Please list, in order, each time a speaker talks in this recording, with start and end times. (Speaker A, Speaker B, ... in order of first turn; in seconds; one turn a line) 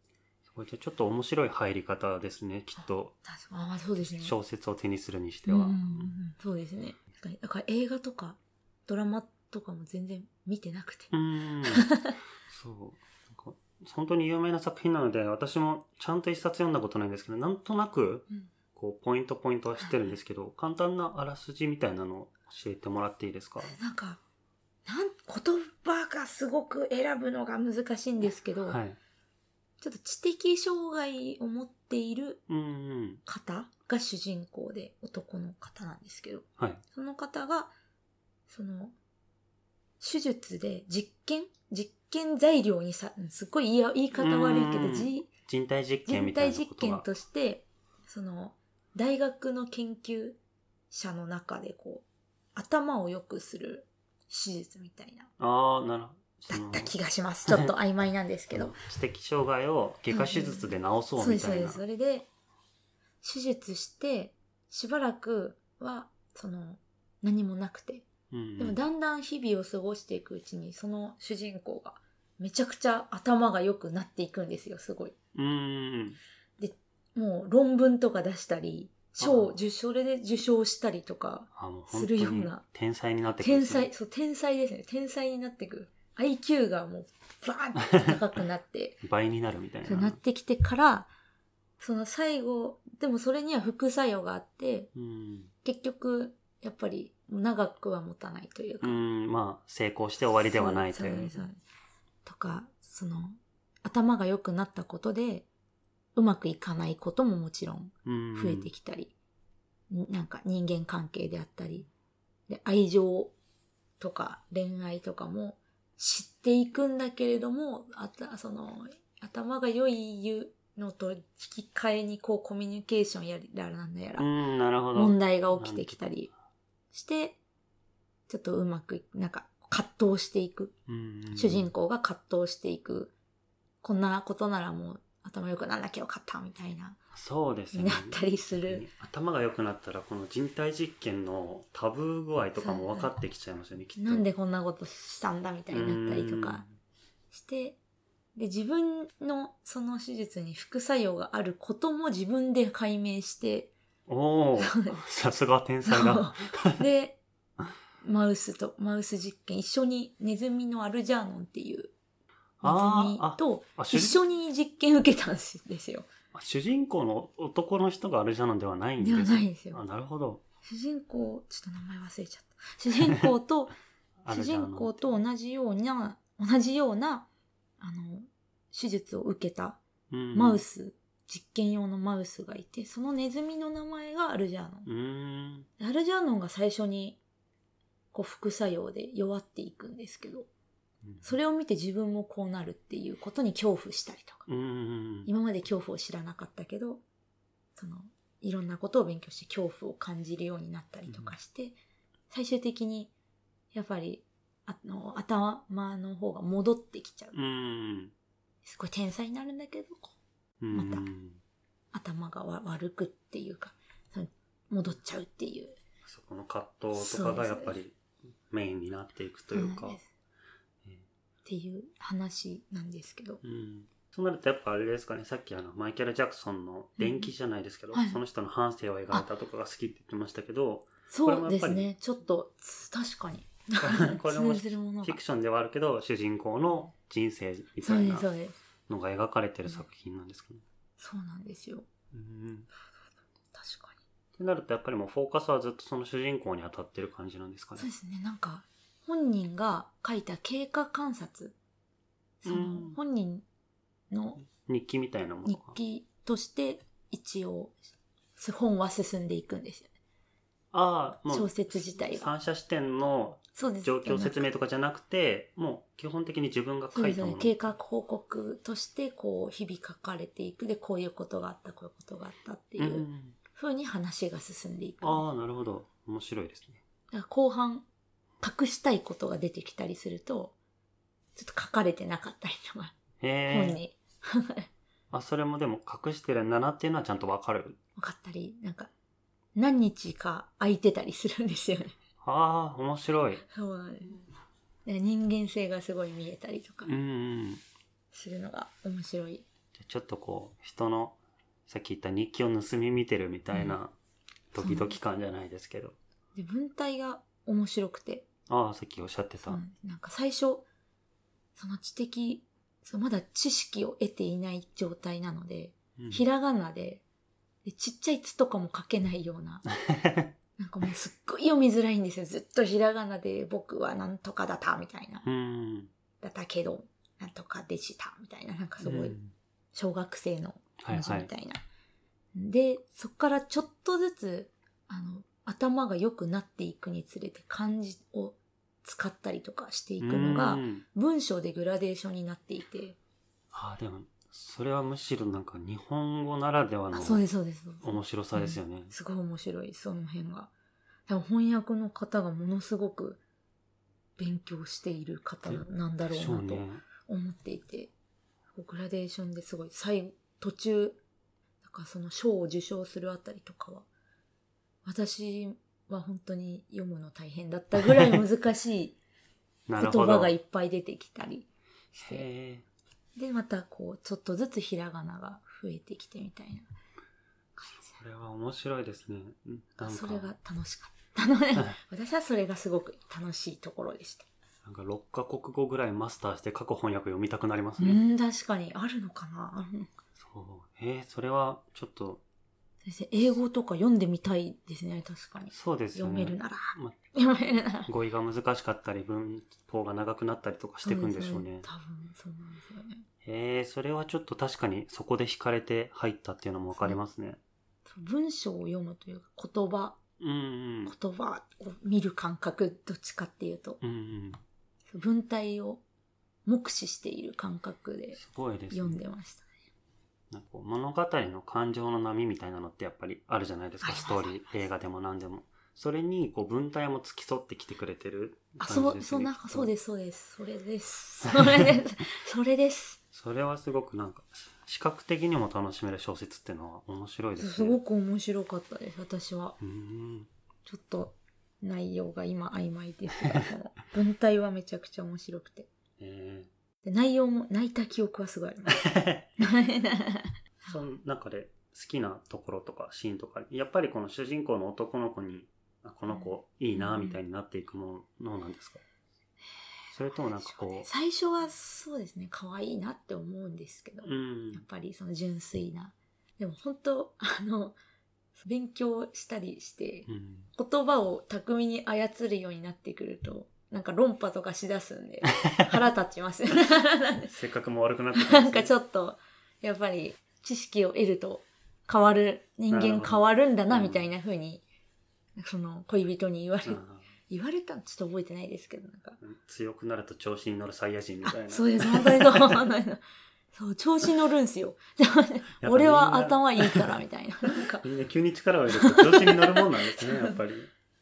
Speaker A: 0.5-3.1
Speaker B: 3.2-4.3
Speaker A: 4.0-6.1
Speaker B: 5.5-11.1
Speaker A: 11.1-11.9
Speaker B: 11.7-12.1
Speaker A: 12.5-23.8
Speaker B: 23.6-24.2
Speaker B: 24.9-28.8
Speaker A: 28.7-29.0
Speaker B: 29.8-32.4
Speaker A: 32.5-33.2
Speaker B: 33.3-37.7
Speaker B: 38.5-39.0
Speaker B: 40.0-45.3
Speaker A: 44.1-47.1
Speaker B: 46.1-50.4
Speaker B: 50.9-55.3
Speaker A: 55.4-56.9
Speaker B: 56.5-58.8
Speaker A: 57.5-57.7
Speaker A: 58.5-61.8
Speaker B: 60.1-62.3
Speaker B: 63.2-75.2
Speaker A: 68.3-68.8
Speaker A: 75.3-76.2
Speaker B: 76.6-82.6
Speaker A: 79.2-79.6
Speaker A: 81.5-83.9
Speaker B: 83.4-89.0
Speaker A: 89.0-90.2
Speaker B: 89.8-91.1
Speaker B: 91.8-94.9
Speaker A: 95.0-95.5
Speaker B: 95.6-99.0
Speaker A: 98.8-101.5
Speaker B: 100.5-101.6
Speaker B: 102.2-105.5
Speaker B: 106.2-109.1
Speaker A: 108.1-108.7
Speaker B: 109.9-111.9
Speaker B: 112.5-113.3
Speaker B: 114.0-124.3
Speaker A: 124.2-126.0
Speaker B: 125.0-126.3
Speaker B: 126.9-127.4
Speaker B: 128.3-130.8
Speaker A: 130.9-131.7
Speaker B: 131.3-133.1
Speaker B: 133.8-137.0
Speaker A: 137.1-144.3
Speaker B: 137.7-138.8
Speaker B: 142.6-143.1
Speaker B: 144.0-146.6
Speaker A: 145.7-146.7
Speaker B: 147.3-147.8
Speaker B: 148.3-153.7
Speaker A: 154.1-156.8
Speaker B: 154.6-155.1
Speaker B: 155.9-157.2
Speaker B: 158.0-161.9
Speaker A: 162.6-164.2
Speaker B: 162.6-166.1
Speaker A: 166.3-170.4
Speaker B: 169.0-169.8
Speaker B: 170.6-173.7
Speaker A: 174.2-175.1
Speaker B: 174.3-177.3
Speaker B: 177.8-179.8
Speaker A: 180.1-180.6
Speaker B: 180.3-184.9
Speaker A: 184.8-185.7
Speaker B: 185.8-187.2
Speaker B: 188.1-190.5
Speaker B: 191.2-194.5
Speaker A: 194.5-195.3
Speaker B: 195.3-197.1
Speaker B: 197.8-201.8
Speaker A: 201.1-201.3
Speaker B: 202.3-203.1
Speaker B: 203.7-207.4
Speaker A: 207.3-208.1
Speaker B: 208.6-210.2
Speaker A: 210.6-211.4
Speaker B: 210.7-211.1
Speaker B: 211.9-215.8
Speaker A: 216.1-218.0
Speaker B: 216.9-217.8
Speaker A: 218.5-220.0
Speaker B: 219.5-220.1
Speaker B: 221.4-223.4
Speaker A: 223.4-231.9
Speaker B: 227.0-227.3
Speaker B: 227.9-228.2
Speaker B: 231.1-235.2
Speaker A: 233.8-238.3
Speaker B: 237.8-238.6
Speaker A: 238.9-240.6
Speaker B: 241.0-241.9
Speaker A: 242.1-242.7
Speaker B: 243.5-244.0
Speaker A: 244.4-247.9
Speaker B: 247.8-251.6
Speaker B: 252.4-253.4
Speaker A: 252.4-253.0
Speaker B: 254.1-254.4
Speaker A: 254.5-255.8
Speaker B: 255.4-257.8
Speaker B: 258.4-259.9
Speaker A: 260.7-267.6
Speaker B: 261.3-262.3
Speaker B: 263.6-264.5
Speaker B: 266.9-275.2
Speaker A: 272.8-273.4
Speaker A: 275.0-276.8
Speaker B: 277.1-277.9
Speaker B: 278.4-280.6
Speaker B: 281.4-283.0
Speaker A: 283.2-283.8
Speaker B: 283.5-284.7
Speaker A: 285.1-287.8
Speaker B: 288.0-288.9
Speaker B: 289.6-291.9
Speaker A: 292.2-293.4
Speaker B: 293.5-294.2
Speaker B: 294.9-296.9
Speaker A: 296.9-297.6
Speaker B: 298.1-299.5
Speaker A: 299.8-303.9
Speaker B: 303.5-303.8
Speaker A: 304.5-306.0
Speaker B: 304.6-304.9
Speaker B: 306.4-308.3
Speaker A: 308.5-309.6
Speaker B: 309.4-310.7
Speaker B: 311.6-317.0
Speaker A: 316.0-316.2
Speaker B: 317.6-319.7
Speaker A: 319.9-320.3
Speaker B: 320.6-325.3
Speaker A: 325.2-325.9
Speaker B: 326.2-329.2
Speaker A: 328.8-329.3
Speaker B: 329.7-331.6
Speaker A: 330.8-331.3
Speaker B: 332.3-343.0
Speaker A: 340.0-340.9
Speaker A: 343.5-347.2
Speaker B: 346.9-350.5
Speaker A: 347.8-348.9
Speaker B: 351.1-353.2
Speaker B: 354.2-357.9
Speaker A: 355.4-356.8
Speaker B: 358.5-361.0
Speaker B: 361.6-363.9
Speaker B: 364.9-369.0
Speaker A: 367.8-368.2
Speaker A: 369.7-370.4
Speaker B: 369.8-372.2
Speaker A: 372.0-372.7
Speaker B: 373.2-376.7
Speaker B: 377.6-377.9
Speaker A: 377.7-380.3
Speaker B: 379.8-384.3
Speaker A: 384.6-388.0
Speaker B: 387.8-389.9
Speaker A: 390.2-392.2
Speaker B: 392.8-397.9
Speaker A: 395.5-397.0
Speaker A: 397.9-401.7
Speaker B: 400.8-403.1
Speaker A: 403.2-407.4
Speaker B: 407.9-410.0
Speaker A: 410.2-410.9
Speaker B: 410.9-413.8
Speaker A: 413.8-414.4
Speaker B: 414.9-415.8
Speaker B: 416.5-418.2
Speaker A: 418.1-419.0
Speaker B: 418.7-419.5
Speaker A: 420.3-429.7
Speaker B: 423.8-424.5
Speaker B: 428.6-433.0
Speaker A: 431.3-431.7
Speaker A: 433.1-437.8
Speaker B: 437.4-439.6
Speaker A: 439.6-440.3
Speaker B: 440.6-445.7
Speaker A: 446.0-446.5
Speaker B: 446.8-450.8
Speaker A: 448.8-449.3
Speaker A: 450.6-458.8
Speaker B: 456.1-457.2
Speaker A: 459.9-460.9
Speaker B: 460.2-467.8
Speaker A: 464.0-464.6
Speaker B: 468.4-477.3
Speaker A: 470.1-470.5
Speaker A: 477.3-478.7
Speaker B: 478.1-484.6
Speaker A: 482.7-484.1
Speaker B: 485.4-489.2
Speaker A: 486.6-487.1
Speaker A: 489.2-492.7
Speaker B: 491.2-497.9
Speaker A: 495.6-496.9
Speaker A: 497.8-500.7
Speaker B: 498.7-500.4